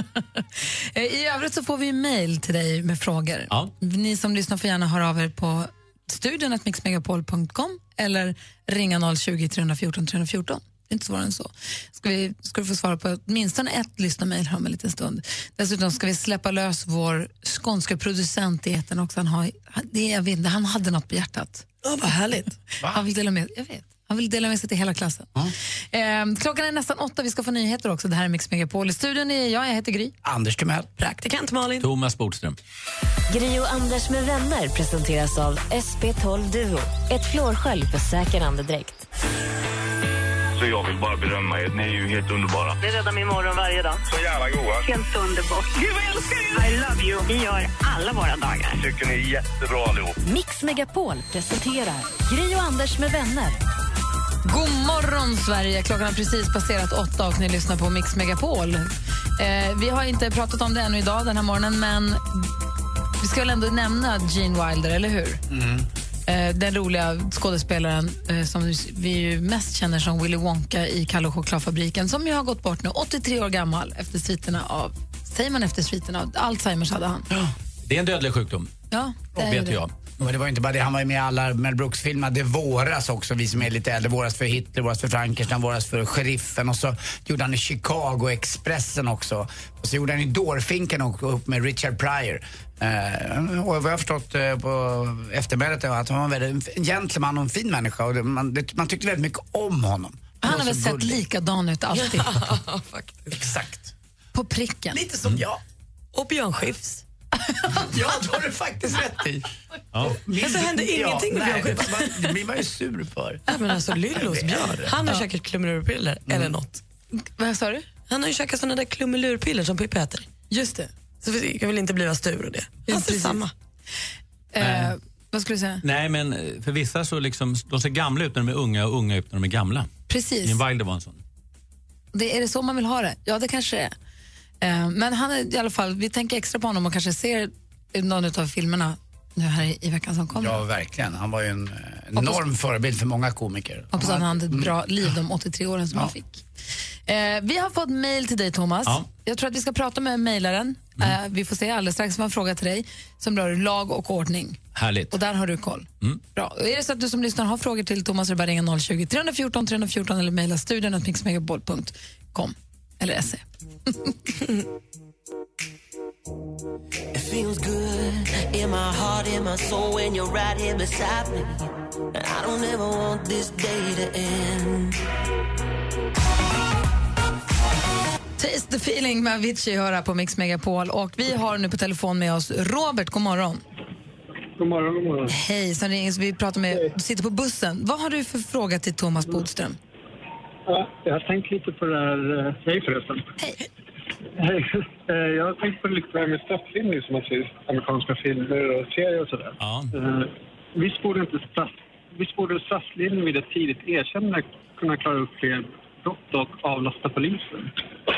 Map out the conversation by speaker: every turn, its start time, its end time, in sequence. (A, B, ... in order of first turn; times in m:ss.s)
0:00.9-0:22.2 A
0:21.8-0:22.5 B
0:22.9-0:25.3 A
0:25.9-0:30.1 A
0:30.2-0:30.9 C
0:31.0-0:31.9 B
0:31.8-0:32.6 D
0:33.3-0:39.0 E
0:40.6-0:42.8 F
0:44.0-0:44.9 F
0:48.7-0:50.2 F
0:50.2-0:53.6 E
0:54.4-1:02.4 A
1:03.2-1:05.4 A
1:05.5-1:05.8 C
1:06.3-1:17.2 A
1:17.8-1:18.7 D
1:18.9-1:19.8 A
1:19.3-1:19.9 D
1:20.2-1:41.2 C
1:40.4-1:42.4 A
1:41.9-1:43.4 B
1:44.3-1:45.0 A
1:45.3-1:45.5 C
1:46.1-1:47.0 B
1:47.9-1:49.4 C
1:50.0-1:53.4 C
1:50.4-1:52.1 B
1:53.5-1:56.8 B
1:54.1-1:54.9 C
1:56.3-1:56.6 C
1:57.2-1:57.8 A
1:58.1-2:00.2 B
2:00.5-2:00.9 A
2:01.2-2:03.5 B
2:02.9-2:03.4 A
2:04.5-2:05.8 A
2:04.6-2:04.9 D
2:05.8-2:09.9 D
2:10.1-2:10.6 A
2:10.4-2:11.2 D
2:12.1-2:13.9 A
2:14.6-2:20.6 A
2:20.4-2:24.7 C
2:23.9-2:26.4 A
2:27.1-2:34.6 A
2:34.7-2:35.2 D
2:35.1-2:43.4 A
2:47.1-2:55.0 G
2:58.4-3:03.6 A
3:04.6-3:05.4 H
3:05.3-3:09.8 A
3:10.7-3:13.3 H
3:14.4-3:27.7 H
3:19.6-3:19.9 D